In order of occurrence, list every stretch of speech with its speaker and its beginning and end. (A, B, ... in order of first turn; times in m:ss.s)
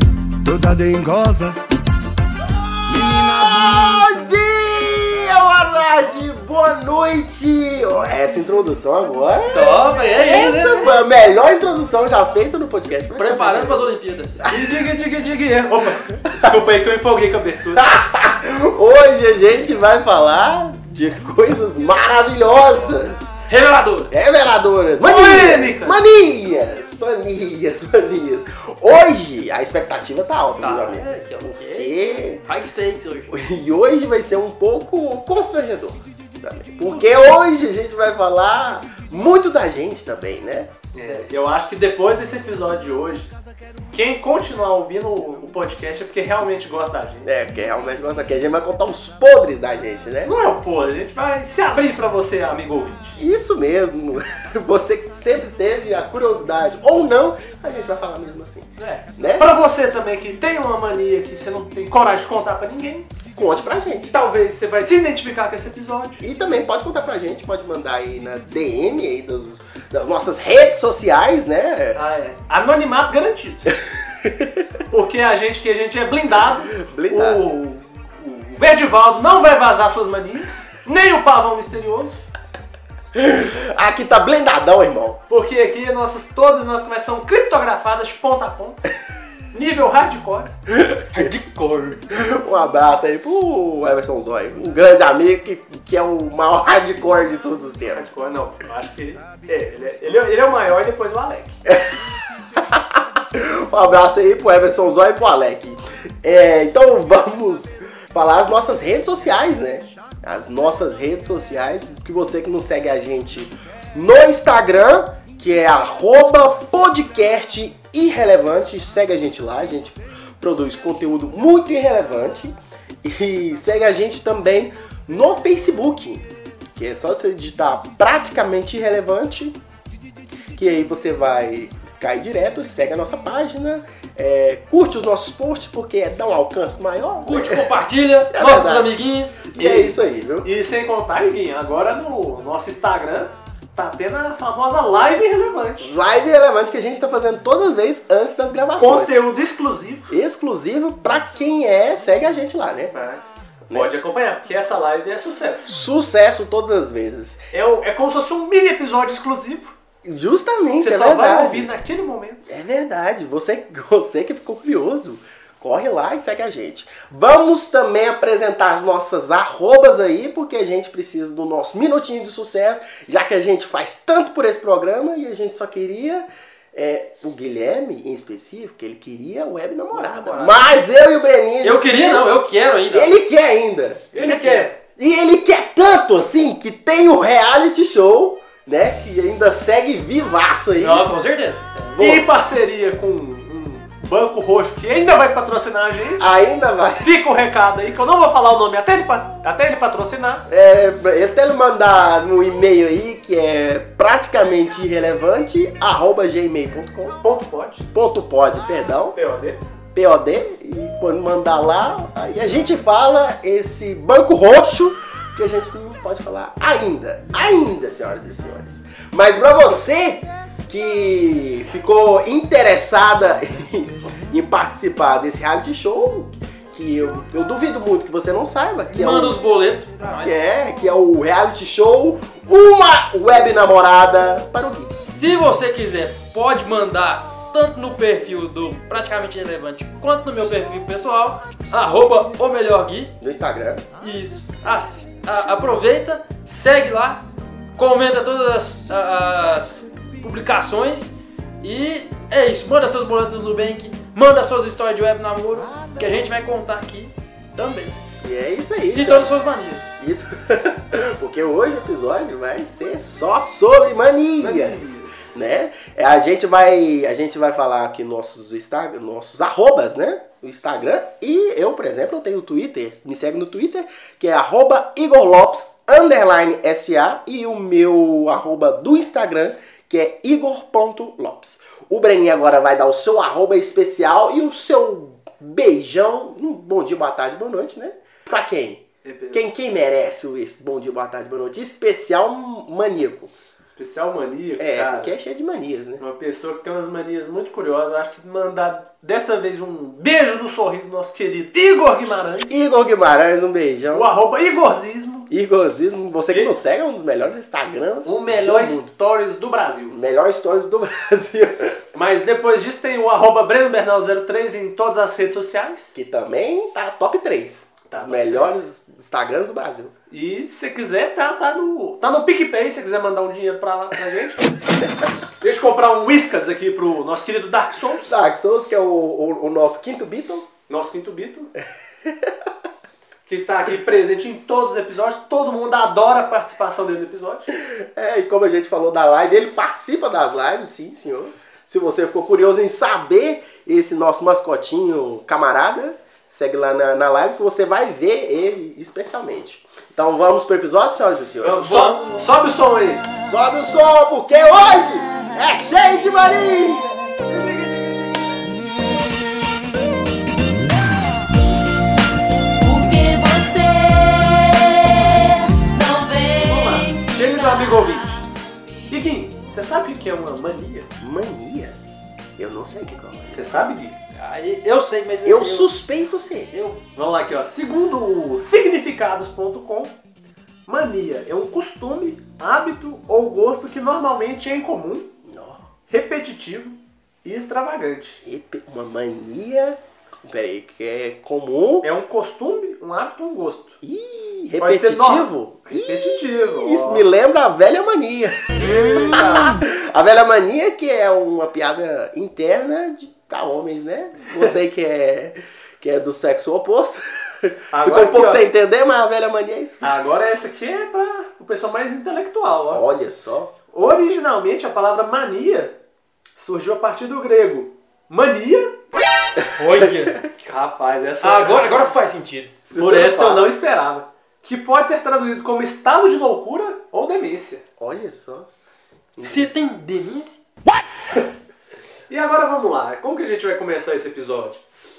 0:00.4-0:01.6 A
0:02.4-0:14.7 B
0:02.9-0:04.2 A
0:09.5-0:10.9 C
0:13.2-0:14.4 C
0:14.5-0:17.9 D
0:17.8-0:23.3 B
0:23.5-0:24.1 C
0:24.1-0:32.4 B
0:25.0-0:26.0 D
0:30.6-0:33.4 C
0:33.3-0:40.7 B
0:40.9-0:43.3 D
0:41.0-0:41.3 C
0:43.9-0:47.3 D
0:47.2-0:50.3 B
0:50.2-0:53.2 D
0:53.2-0:59.5 B
0:58.8-1:03.1 D
1:03.4-1:04.1 B
1:04.1-1:06.2 D
1:06.2-1:12.0 B
1:11.9-1:13.7 D
1:14.2-1:14.7 B
1:14.9-1:22.2 D
1:16.6-1:17.4 B
1:23.1-1:25.2 B
1:25.3-1:28.8 D
1:29.5-1:30.5 D
1:30.7-1:31.3 B
1:31.1-1:32.0 C
1:32.1-1:38.1 B
1:37.9-1:41.6 D
1:41.7-2:09.6 B
2:10.5-2:17.7 B
2:17.2-2:19.3 C
2:18.3-2:20.5 B
2:19.6-2:25.9 D
2:25.8-2:29.2 B
2:28.8-2:30.1 D
2:30.1-2:33.0 B
2:32.9-2:35.7 D
2:35.7-2:37.4 B
2:37.5-2:39.7 D
2:40.0-2:41.7 B
2:40.8-2:42.5 D
2:42.5-3:02.2 B
2:59.9-3:00.7 D
3:01.6-3:03.1 C
3:02.9-3:11.1 B
3:04.1-3:04.8 D
3:10.8-3:11.6 C
3:11.7-3:12.3 B
3:12.0-3:16.3 D
3:16.2-3:17.1 B
3:17.0-3:20.5 D
3:20.5-3:27.2 B
3:27.2-3:27.8 D
3:27.9-3:29.2 B
3:29.1-3:29.6 D
3:29.9-3:49.4 B
3:48.9-3:50.3 C
3:50.2-3:55.0 B
3:55.1-4:03.1 C
4:03.2-4:03.9 B
4:04.0-4:07.2 C
4:07.8-4:17.9 C
4:18.2-4:19.4 B
4:18.9-4:19.9 C
4:20.0-4:53.3 B
4:24.4-4:25.2 D
4:49.0-4:49.5 D
4:53.8-4:55.2 D
4:54.6-4:56.0 B
4:56.0-5:02.5 D
5:02.5-5:04.1 B
5:03.9-5:05.3 D
5:05.3-5:08.9 B
5:06.3-5:06.5 D
5:08.0-5:09.9 D
5:09.9-5:11.8 B
5:11.9-5:15.9 D
5:15.9-5:19.9 B
5:17.9-5:18.6 D
5:20.1-5:24.4 D
5:25.4-5:28.1 D
5:28.0-5:30.5 B
5:30.7-5:31.5 D
5:32.0-5:32.4 B
5:33.3-5:37.5 D
5:37.5-5:51.7 B
5:51.4-5:53.0 D
5:51.6-5:52.0 C
5:53.2-5:56.9 B
5:57.3-5:58.4 D
6:02.6-6:07.9 E
6:06.4-6:08.2 D
6:08.9-6:10.9 D
6:11.0-6:11.8 B
6:12.4-6:13.4 B
6:13.3-6:14.0 D
6:14.1-6:15.7 C
6:15.2-6:16.5 B
6:16.5-6:16.8 C
6:17.0-6:19.9 D
6:20.7-6:25.1 D
6:25.2-6:25.6 B
6:25.9-6:28.2 D
6:28.2-6:31.9 B
6:31.8-6:33.8 D
6:33.8-6:49.9 B
6:34.6-6:37.0 D
6:38.6-6:39.6 D
6:47.7-6:48.4 D
6:49.8-6:52.8 D
6:52.7-6:53.5 B
6:53.7-6:55.8 D
6:56.4-6:58.8 D
6:59.6-7:00.2 C
7:00.4-7:01.9 D
7:01.2-7:02.5 C
7:02.6-7:03.5 B
7:02.8-7:07.6 D
7:07.8-7:08.5 B
7:09.2-7:09.5 B
7:09.2-7:10.4 C
7:12.1-7:14.6 D